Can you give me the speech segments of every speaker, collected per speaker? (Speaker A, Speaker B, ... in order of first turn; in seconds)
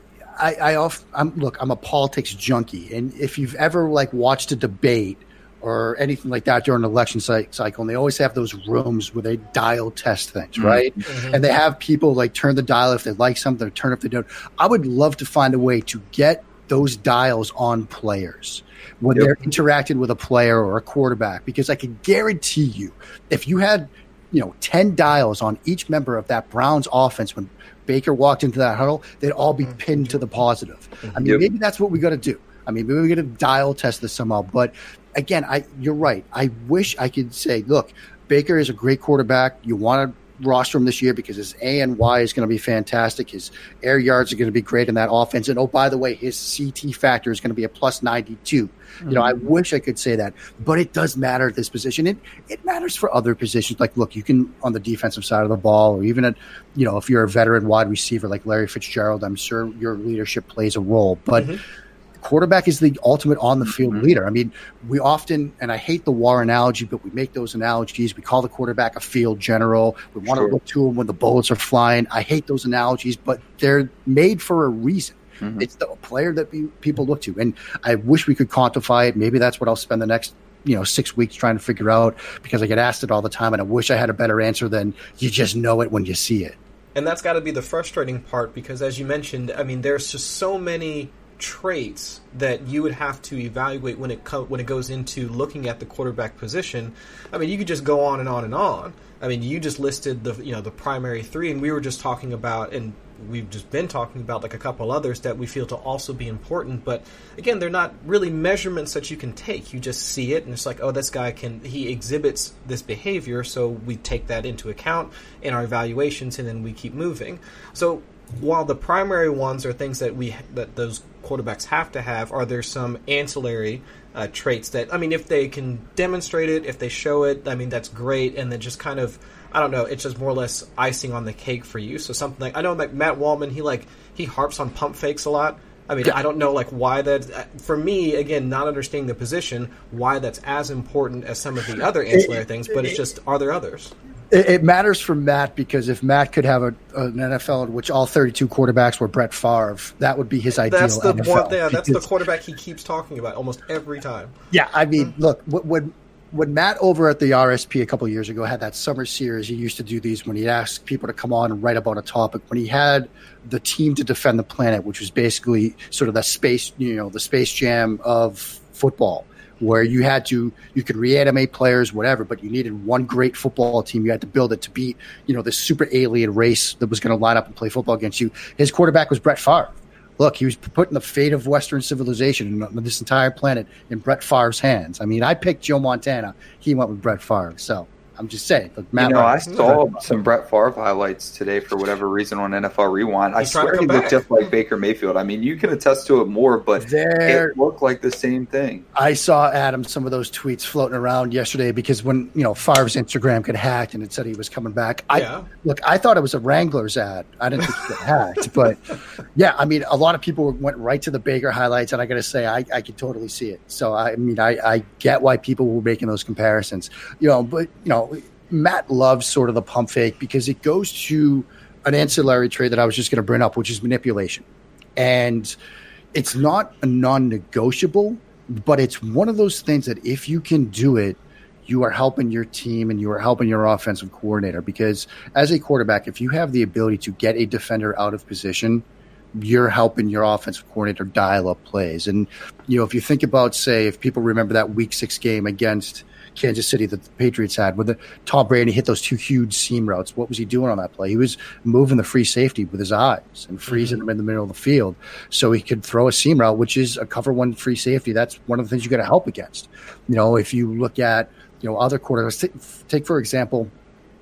Speaker A: 0.3-61.5, 62.2-86.5, 142.1-142.9, 144.3-152.1, 154.5-190.0, 196.8-197.5, 198.9-225.5, 226.1-263.7
Speaker B: 10.6-10.8, 49.0-49.4, 70.3-70.5, 75.4-75.7, 188.9-198.8
Speaker C: 11.0-11.4, 61.4-61.6, 86.9-143.9, 150.6-154.3, 189.5-189.8, 193.4-194.2, 205.1-205.5, 253.7-254.0